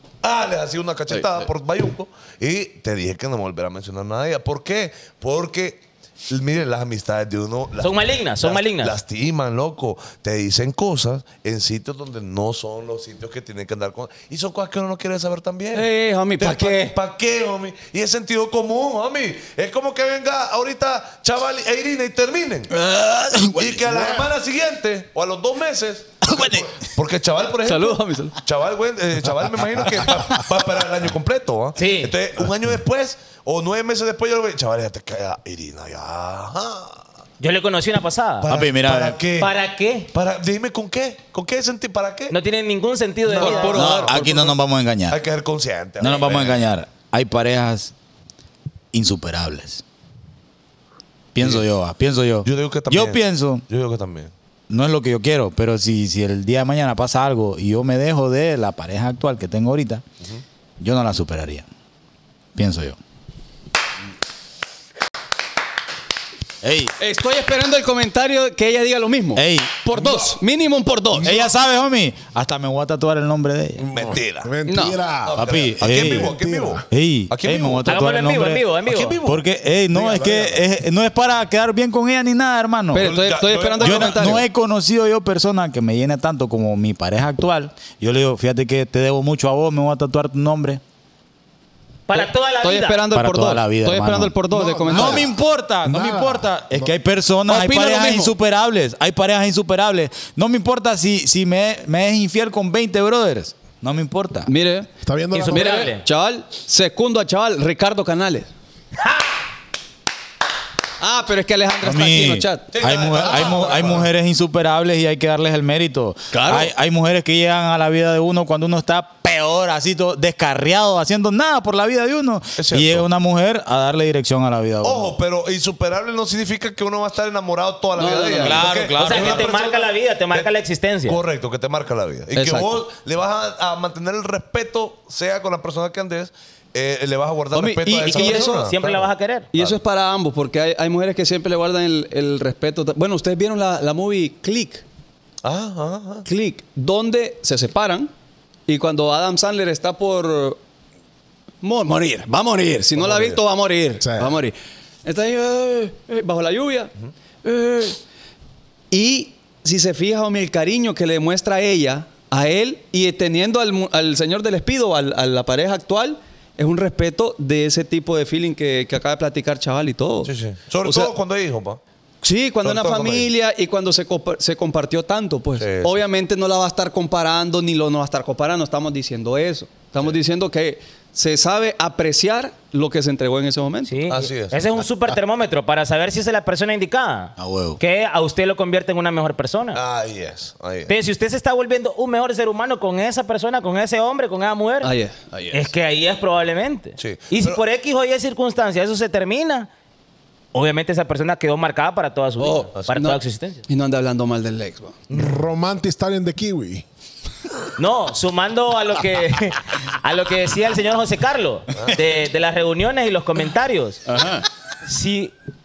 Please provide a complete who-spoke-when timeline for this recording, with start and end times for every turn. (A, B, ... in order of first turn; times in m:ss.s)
0:00.2-0:15.9 A
0:01.1-0:01.5 B
0:07.8-0:09.0 C
0:15.7-0:17.0 B
0:16.4-0:22.7 A
0:22.7-0:23.8 B
0:23.5-0:37.0 A
0:26.3-0:26.7 D
0:27.6-0:28.4 B
0:31.8-0:32.1 C
0:37.4-0:38.5 C
0:38.4-0:39.5 A
0:38.5-0:39.2 D
0:39.4-0:40.1 C
0:40.1-0:42.4 A
0:42.3-0:43.8 C
0:43.2-0:46.7 A
0:43.4-0:44.3 B
0:43.7-0:45.2 D
0:46.0-0:47.9 D
0:48.9-0:49.8 D
0:51.3-0:53.6 D
0:51.4-0:51.7 A
0:52.4-0:54.3 A
0:54.7-1:00.0 D
1:00.8-1:01.6 D
1:02.6-1:03.0 D
1:06.6-1:06.9 D
1:07.0-1:11.4 B
1:09.4-1:09.9 D
1:10.0-1:10.3 A
1:11.2-1:13.8 D
1:13.8-1:16.8 E
1:13.9-1:14.5 A
1:14.7-1:15.0 B
1:15.2-1:18.0 A
1:15.4-1:16.4 D
1:16.9-1:18.7 D
1:17.8-1:19.2 C
1:18.8-1:20.6 A
1:19.2-1:23.1 D
1:22.9-1:24.4 B
1:22.9-1:24.5 A
1:23.8-1:30.8 D
1:32.1-1:33.0 C
1:32.1-1:35.3 B
1:33.1-1:44.5 D
1:34.5-1:36.9 E
1:37.5-1:38.3 B
1:44.5-1:44.9 B
1:45.0-1:45.9 E
1:45.3-1:46.0 C
1:45.4-1:48.5 B
1:49.0-1:49.3 C
1:51.0-1:52.7 B
1:51.8-2:05.1 D
1:52.7-1:54.1 A
1:56.3-1:56.7 B
2:02.6-2:03.0 A
2:04.8-2:10.5 A
2:08.0-2:08.7 B
2:08.4-2:09.5 D
2:09.0-2:11.2 C
2:11.1-2:19.8 A
2:12.3-2:12.8 B
2:17.5-2:18.7 B
2:18.0-2:19.5 C
2:19.5-2:24.8 B
2:25.4-2:26.3 A
2:26.2-2:28.1 B
2:28.7-2:30.6 B
2:31.6-2:36.9 B
2:32.9-2:33.4 A
2:34.0-2:34.4 E
2:37.4-2:38.0 B
2:38.9-2:50.3 B
2:50.2-2:51.8 A
2:50.8-2:51.1 B
2:52.2-3:03.9 B
2:52.6-2:53.3 A
2:55.6-2:55.9 A
3:03.8-3:09.8 C
3:04.1-3:04.9 A
3:07.4-3:07.8 D
3:09.7-3:10.9 A
3:10.9-3:14.9 C
3:14.8-3:15.7 B
3:15.5-3:19.7 C
3:17.0-3:17.6 A
3:20.5-3:23.6 C
3:22.4-3:25.0 B
3:25.1-3:26.8 E
3:25.1-3:25.4 C
3:27.8-3:34.0 C
3:31.7-3:32.0 A
3:34.1-3:34.4 B
3:34.8-3:35.3 C